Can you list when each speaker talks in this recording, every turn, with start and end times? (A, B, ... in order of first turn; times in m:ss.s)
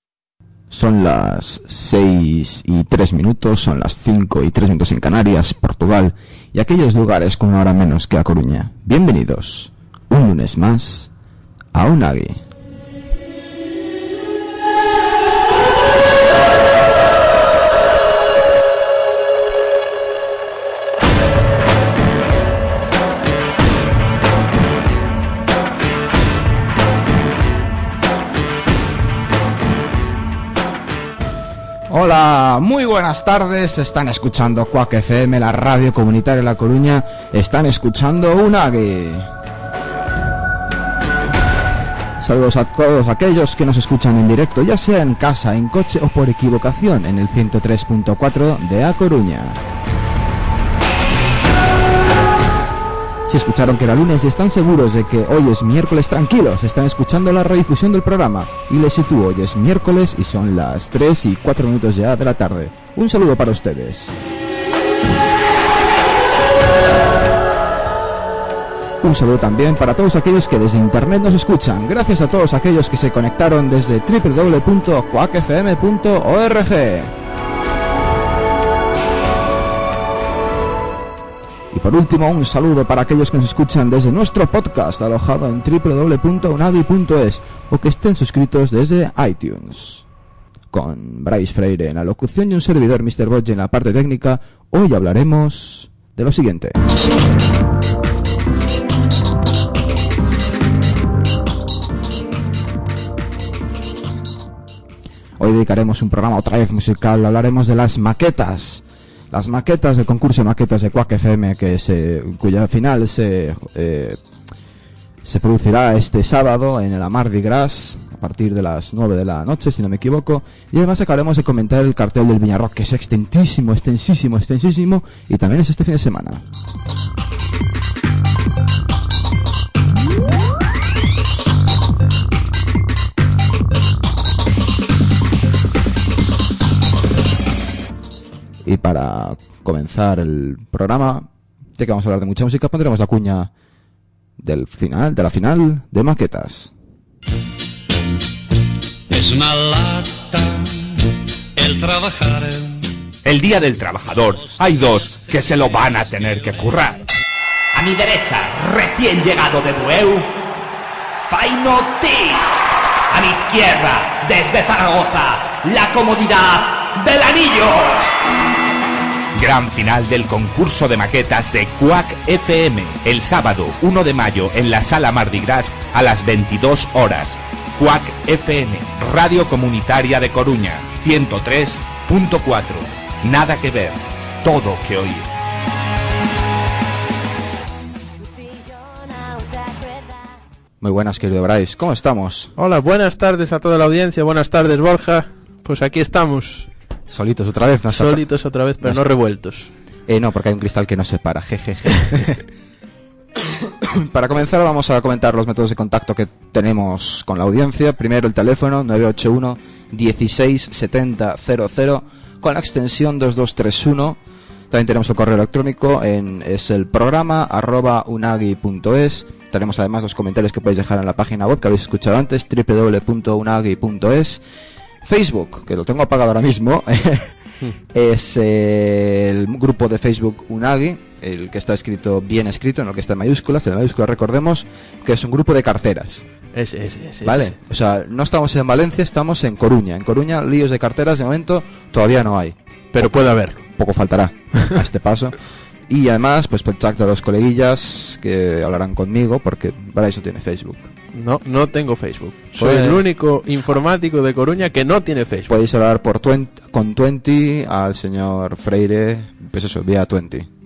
0:00.7-0:11.1 A
0:11.7-0:12.4 A
0:31.9-0:39.3 A
0:42.2-0:49.6 A
0:53.3-1:04.1 A
1:09.0-1:17.1 A
1:21.7-1:30.0 A
1:30.7-1:36.8 A
1:45.4-1:54.2 A
1:55.2-2:06.4 A
2:18.6-2:23.5 A
2:24.4-2:26.7 A
2:29.1-2:32.9 B
2:33.2-2:37.0 C
2:37.7-2:40.3 C
2:41.2-2:42.4 C
2:43.1-2:48.1 C
2:49.3-3:05.3 C
3:10.8-3:12.5 A
3:12.6-3:16.7 D
3:17.1-3:18.2 A
3:17.9-3:19.7 D
3:20.1-3:22.4 A
3:23.6-3:34.2 A
3:34.7-3:44.4 A
3:45.0-3:47.4 A
3:47.9-3:56.2 A
3:56.5-3:57.6 D
3:57.2-4:03.1 A
4:02.9-4:03.6 D
4:03.6-4:05.4 A
4:05.9-4:10.9 A
4:11.1-4:15.5 D
4:12.6-4:13.0 A
4:15.5-4:20.5 A